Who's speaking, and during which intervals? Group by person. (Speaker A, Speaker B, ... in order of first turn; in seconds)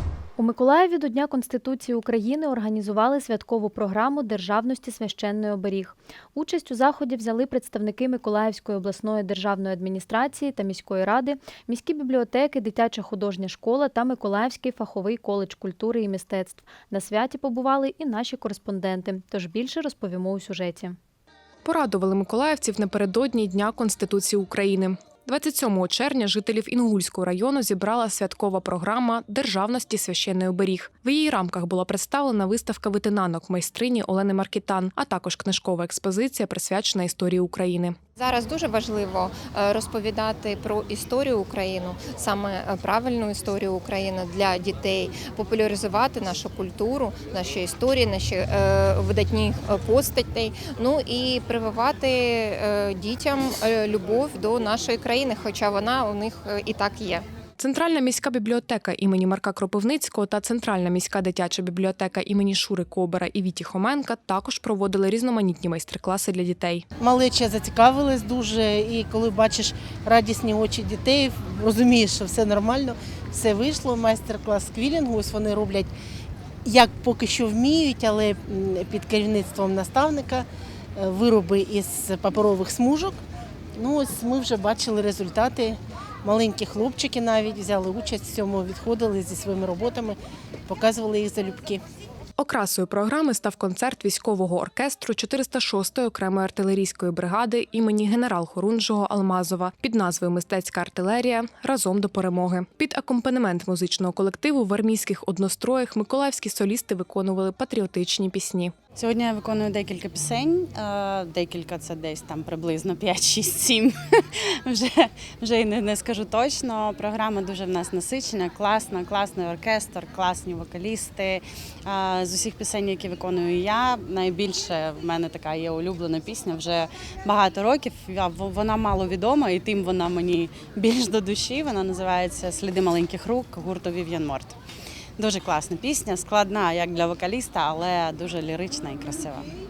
Speaker A: 0.4-21.0
Speaker B: 21.6-38.0, 57.6-66.8, 92.4-108.7
Speaker C: 38.2-57.2
Speaker D: 67.0-75.9, 76.7-80.5, 81.0-83.2, 83.8-91.8
Speaker E: 109.0-114.1, 114.7-134.6, 135.2-139.5